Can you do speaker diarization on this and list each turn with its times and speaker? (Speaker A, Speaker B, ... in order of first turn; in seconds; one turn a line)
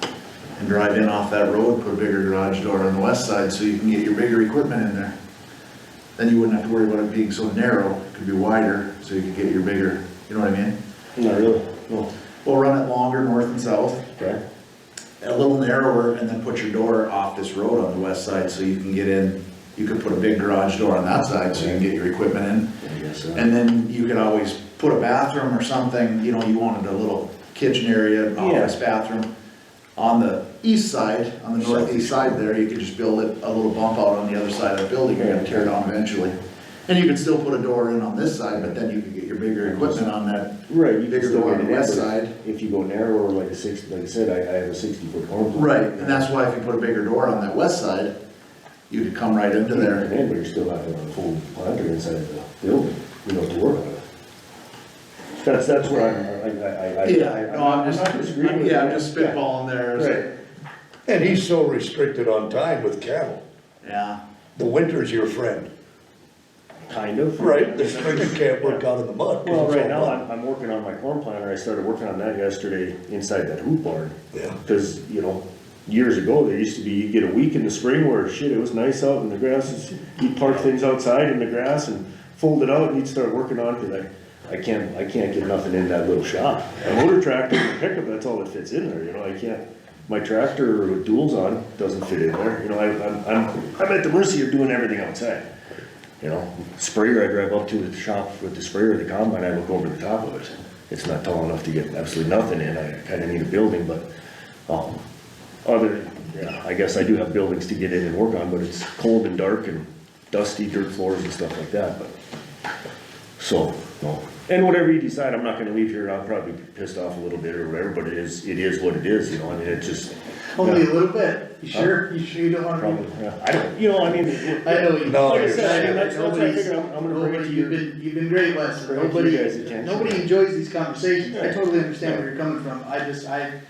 Speaker A: 0.6-5.1
Speaker A: 6.2-10.7
Speaker B: 11.2-12.1
Speaker A: 12.4-14.1
Speaker A: 15.2-22.7
Speaker B: 22.8-23.4
Speaker A: 23.3-29.3
Speaker B: 28.4-28.7
Speaker A: 30.0-36.4
Speaker C: 31.6-32.4
Speaker B: 35.1-35.7
Speaker A: 36.9-40.5
Speaker B: 39.6-40.0
Speaker B: 40.7-46.3
Speaker A: 41.1-42.3
Speaker A: 45.5-48.1
Speaker A: 48.9-50.1
Speaker B: 49.7-54.0
Speaker B: 55.4-59.4
Speaker A: 57.0-60.3
Speaker B: 60.0-60.2
Speaker C: 61.1-63.4
Speaker A: 63.8-64.2
Speaker C: 64.5-65.7
Speaker B: 66.9-68.8
Speaker C: 67.4-70.2
Speaker B: 69.4-95.4
Speaker B: 96.2-104.0
Speaker B: 104.7-105.0
Speaker B: 105.6-112.1
Speaker B: 113.4-120.9
Speaker D: 120.5-123.1
Speaker B: 121.7-122.0
Speaker B: 122.8-127.8
Speaker D: 124.6-133.5
Speaker C: 125.0-125.9
Speaker B: 128.8-130.3
Speaker B: 131.3-132.2